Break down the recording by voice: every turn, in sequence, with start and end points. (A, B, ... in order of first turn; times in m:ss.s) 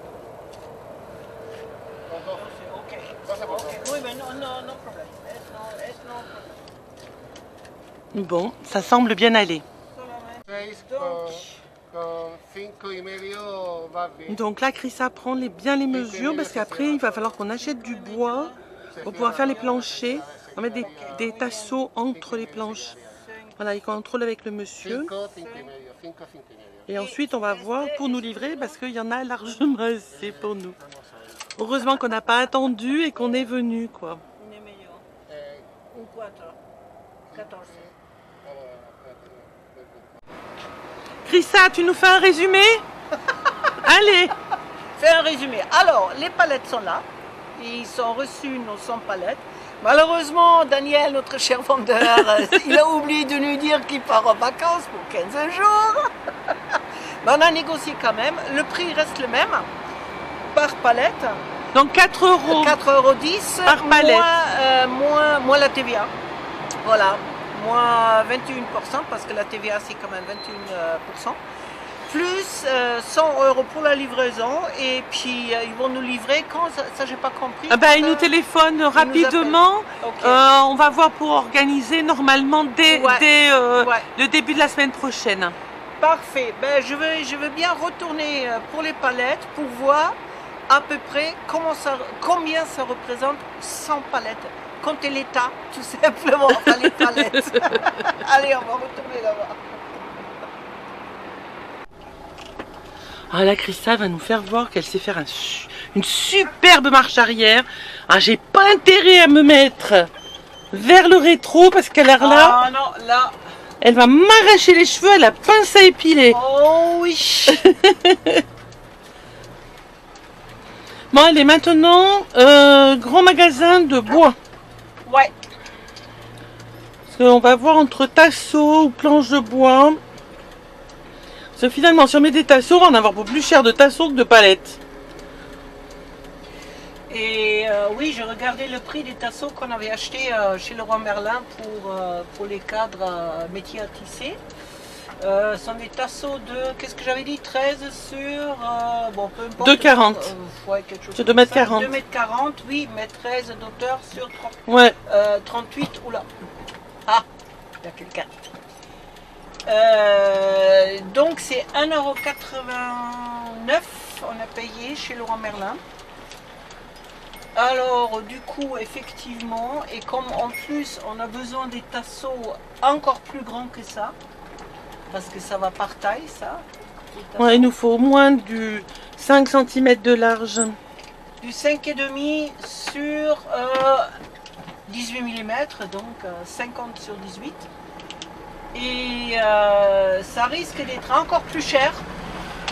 0:02.1-0:02.4 A
0:02.3-0:06.6 B
0:03.2-0:03.9 A
0:08.1-0:09.6 C
0:09.9-0:11.6 B
0:10.5-0:14.4 A
0:14.3-0:23.0 C
0:15.9-0:17.4 A
0:17.5-0:20.1 B
0:18.9-0:23.2 A
0:20.7-0:21.8 B
0:23.1-0:23.6 B
0:23.6-0:25.1 C
0:24.8-0:26.9 A
0:25.3-0:25.7 B
0:26.9-0:30.8 C
0:26.9-0:28.8 B
0:30.1-0:31.4 A
0:31.6-0:34.2 C
0:34.4-0:35.0 B
0:35.3-0:35.7 A
0:35.9-0:36.6 B
0:37.3-0:40.2 A
0:37.3-0:37.9 B
0:41.2-0:42.8 C
0:43.8-0:44.3 C
0:45.0-0:47.0 B
0:47.6-0:56.5 B
0:52.0-0:52.8 C
0:57.2-0:59.7 B
1:00.5-1:01.4 B
1:01.7-1:02.8 C
1:02.5-1:06.1 B
1:03.6-1:04.3 C
1:06.8-1:11.4 B
1:12.1-1:18.3 B
1:17.7-1:25.6 C
1:18.9-1:20.4 B
1:22.9-1:23.2 B
1:23.8-1:24.1 B
1:26.0-1:30.2 B
1:30.7-1:39.6 B
1:36.5-1:38.2 C
1:43.3-1:50.1 C
1:50.7-1:52.6 C
1:52.2-1:53.3 B
1:53.8-1:56.4 C
1:56.3-1:57.6 B
1:57.5-1:58.4 C
2:01.1-2:04.4 C
2:05.0-2:05.3 B
2:07.1-2:10.0 C
2:11.6-2:14.8 C
2:17.1-2:24.4 B
2:25.2-2:36.3 B
2:29.6-2:30.3 C
2:31.2-2:32.0 C
2:34.7-2:35.0 C
2:37.8-2:38.3 B
2:39.7-2:45.8 B
2:47.6-2:54.2 B
2:55.1-2:57.7 B
2:57.4-3:00.8 C
3:01.4-3:04.1 B
3:04.9-3:07.7 B
3:08.7-3:12.0 B